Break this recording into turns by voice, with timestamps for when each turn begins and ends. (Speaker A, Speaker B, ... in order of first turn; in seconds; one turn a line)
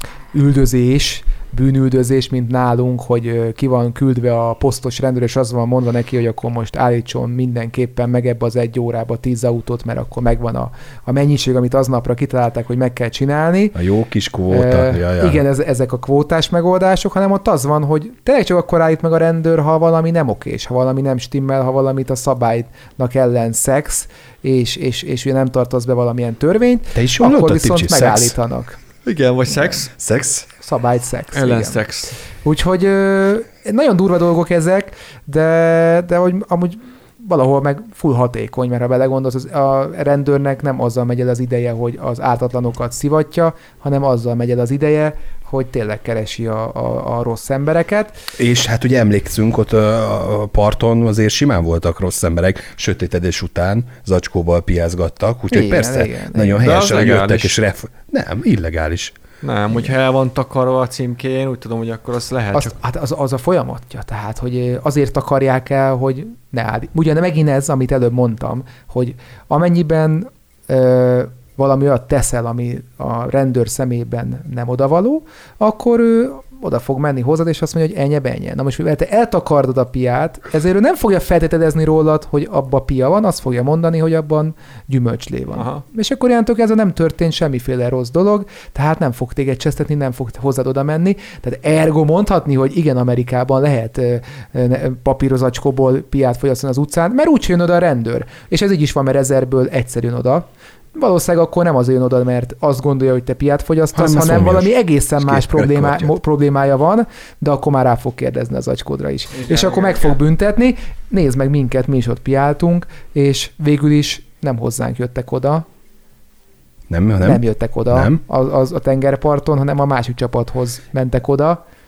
Speaker A: 0.3-13.8
Speaker B: 13.7-15.4
Speaker A: 14.5-28.8
Speaker B: 26.9-28.3
Speaker C: 29.0-29.9
Speaker B: 30.0-30.5
Speaker A: 30.6-31.8
Speaker C: 31.3-32.1
Speaker A: 32.4-48.1
Speaker B: 48.4-59.1
Speaker A: 55.5-56.6
Speaker C: 56.6-57.5
Speaker C: 59.4-62.7
Speaker A: 62.5-115.6
Speaker C: 85.5-85.8
Speaker B: 103.9-106.1
Speaker C: 109.3-110.2
Speaker B: 116.9-118.2
Speaker A: 117.2-121.6